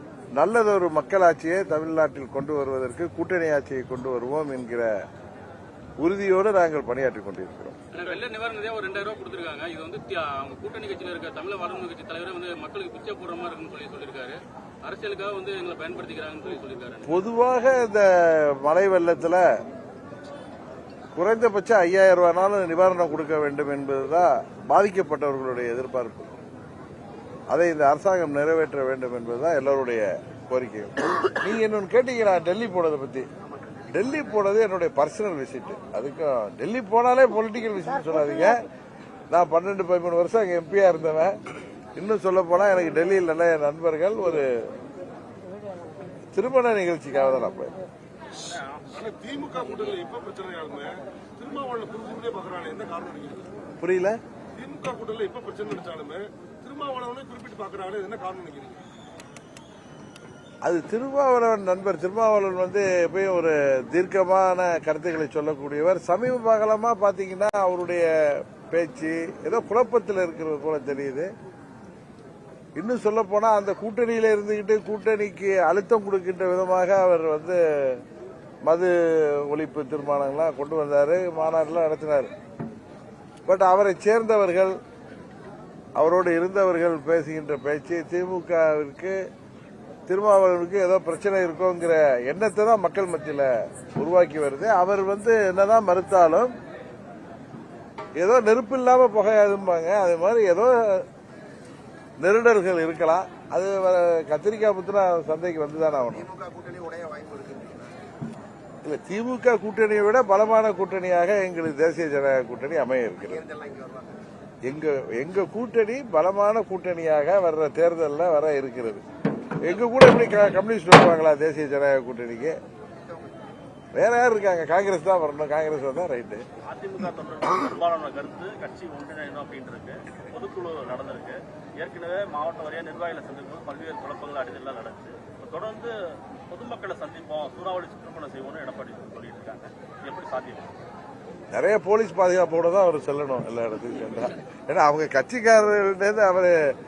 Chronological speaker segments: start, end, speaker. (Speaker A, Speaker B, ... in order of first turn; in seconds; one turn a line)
Speaker A: 0.4-4.9
Speaker A: 6.0-7.8
Speaker B: 7.9-14.0
Speaker C: 8.0-8.2
Speaker B: 15.7-16.9
Speaker A: 17.1-19.4
Speaker A: 21.2-26.3
Speaker A: 27.5-33.3
Speaker D: 33.5-34.3
Speaker A: 33.9-38.6
Speaker A: 39.3-41.4
Speaker A: 42.0-44.5
Speaker A: 46.3-47.8
Speaker E: 48.9-53.5
Speaker A: 53.8-54.2
Speaker E: 54.5-58.8
Speaker A: 60.6-68.1
Speaker A: 68.7-71.3
Speaker A: 72.8-78.0
Speaker A: 78.7-82.3
Speaker A: 83.5-84.7
Speaker A: 86.0-89.2
Speaker A: 90.1-96.5
Speaker A: 98.2-101.1
Speaker A: 102.2-106.3
Speaker D: 106.1-108.0
Speaker A: 108.8-113.4
Speaker D: 113.2-114.2
Speaker A: 114.7-119.0
Speaker A: 119.6-122.6
Speaker D: 122.9-123.4
Speaker A: 123.9-126.4
Speaker C: 126.7-135.9
Speaker C: 136.5-140.7
Speaker A: 141.5-146.6